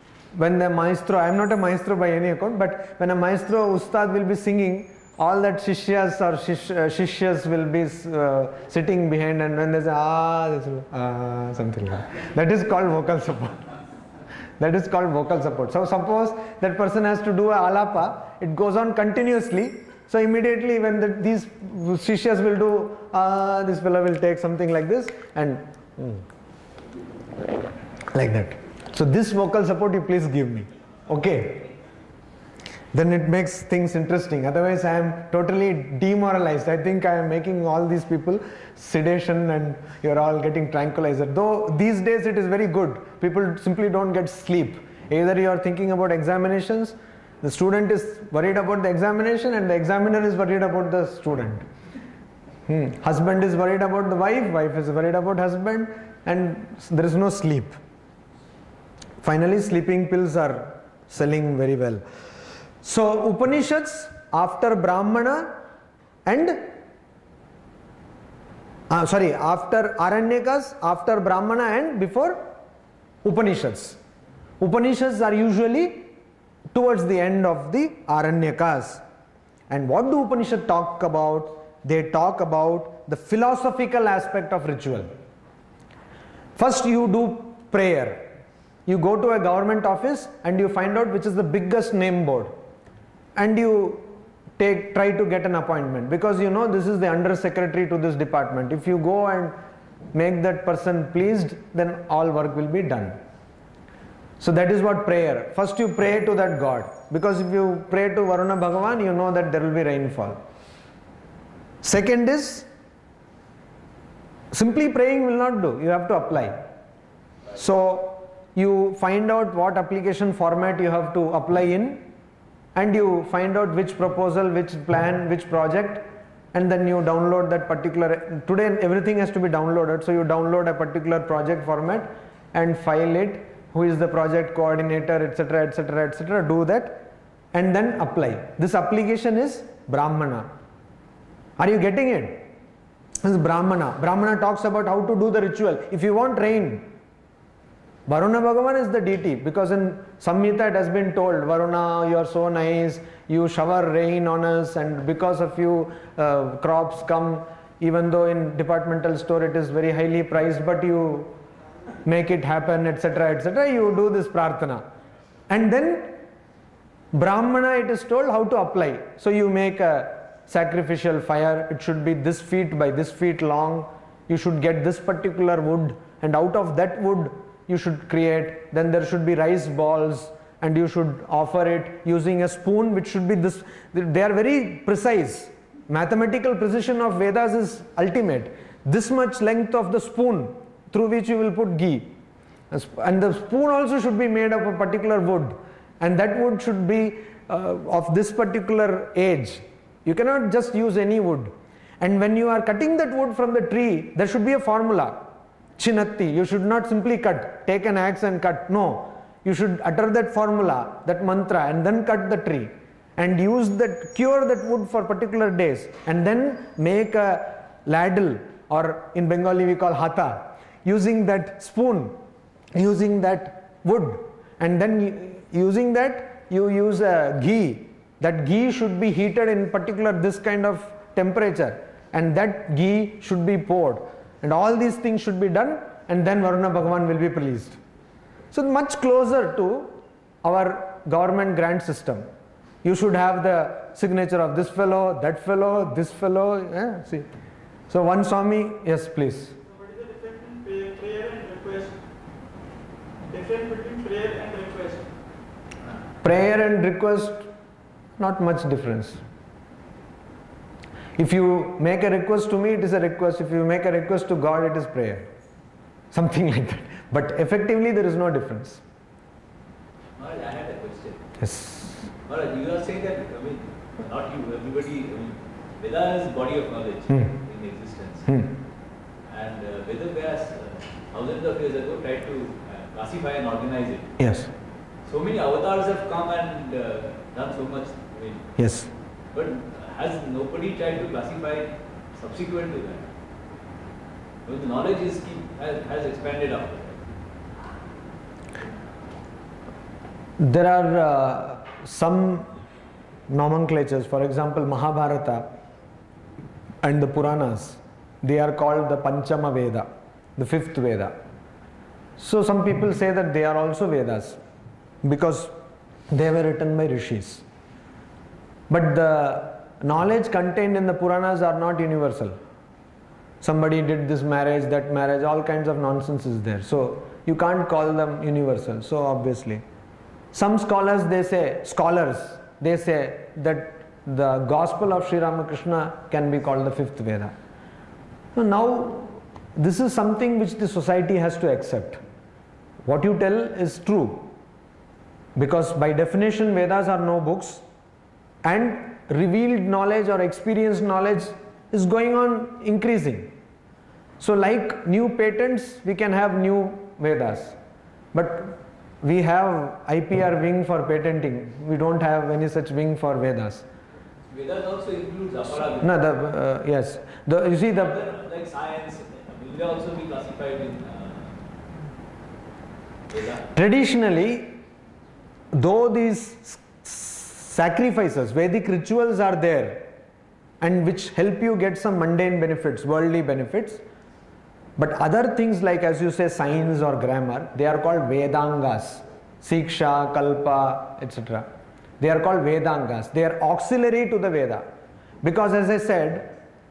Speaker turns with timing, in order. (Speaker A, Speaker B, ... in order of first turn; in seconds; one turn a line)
Speaker A: 0.3-13.7
Speaker A: 14.6-26.2
Speaker A: 28.1-31.7
Speaker A: 32.9-51.6
Speaker A: 52.7-57.8
Speaker A: 59.2-62.0
Speaker A: 62.8-65.5
Speaker A: 66.3-66.7
Speaker A: 68.9-72.4
Speaker A: 73.2-74.0
Speaker A: 74.6-76.1
Speaker A: 76.7-79.0
Speaker A: 79.7-85.1
Speaker A: 86.6-88.3
Speaker A: 88.9-92.5
Speaker A: 93.4-99.6
Speaker A: 100.1-103.2
Speaker A: 104.4-110.4
Speaker A: 111.8-112.7
Speaker A: 114.5-116.6
Speaker A: 117.6-122.1
Speaker A: 122.8-140.5
Speaker A: 141.6-142.4
Speaker A: 143.2-146.9
Speaker A: 148.1-161.3
Speaker A: 162.1-164.8
Speaker A: 165.5-166.2
Speaker A: 167.1-192.2
Speaker A: 192.7-205.2
Speaker A: 205.8-222.2
Speaker A: 222.8-237.8
Speaker A: 238.5-242.3
Speaker A: 242.8-247.3
Speaker A: 247.9-249.6
Speaker B: 249.7-252.0
Speaker B: 253.3-255.1
Speaker A: 256.2-257.5
Speaker A: 258.2-259.2
Speaker A: 261.2-265.3
Speaker A: 266.1-268.8
Speaker C: 270.2-271.3
Speaker A: 271.4-272.0
Speaker C: 272.2-278.4
Speaker C: 279.3-284.2
Speaker A: 284.2-284.5
Speaker C: 285.1-288.6
Speaker A: 288.6-288.9
Speaker C: 289.3-293.1
Speaker C: 294.4-297.0
Speaker A: 300.4-302.5
Speaker A: 303.3-305.5
Speaker A: 306.8-311.1
Speaker A: 312.2-314.4
Speaker A: 315.0-315.5
Speaker A: 316.1-317.4
Speaker A: 318.7-322.4
Speaker A: 323.4-329.6
Speaker A: 330.3-337.3
Speaker A: 338.4-342.0
Speaker A: 342.9-344.3
Speaker A: 345.4-347.6
Speaker A: 348.4-353.3
Speaker A: 354.2-357.6
Speaker A: 358.1-363.6
Speaker C: 364.3-366.1
Speaker A: 365.8-368.0
Speaker C: 367.5-371.4
Speaker C: 373.1-373.5
Speaker A: 373.6-374.6
Speaker A: 375.5-379.9
Speaker A: 380.6-383.8
Speaker A: 384.8-391.5
Speaker A: 392.0-394.6
Speaker A: 395.2-396.3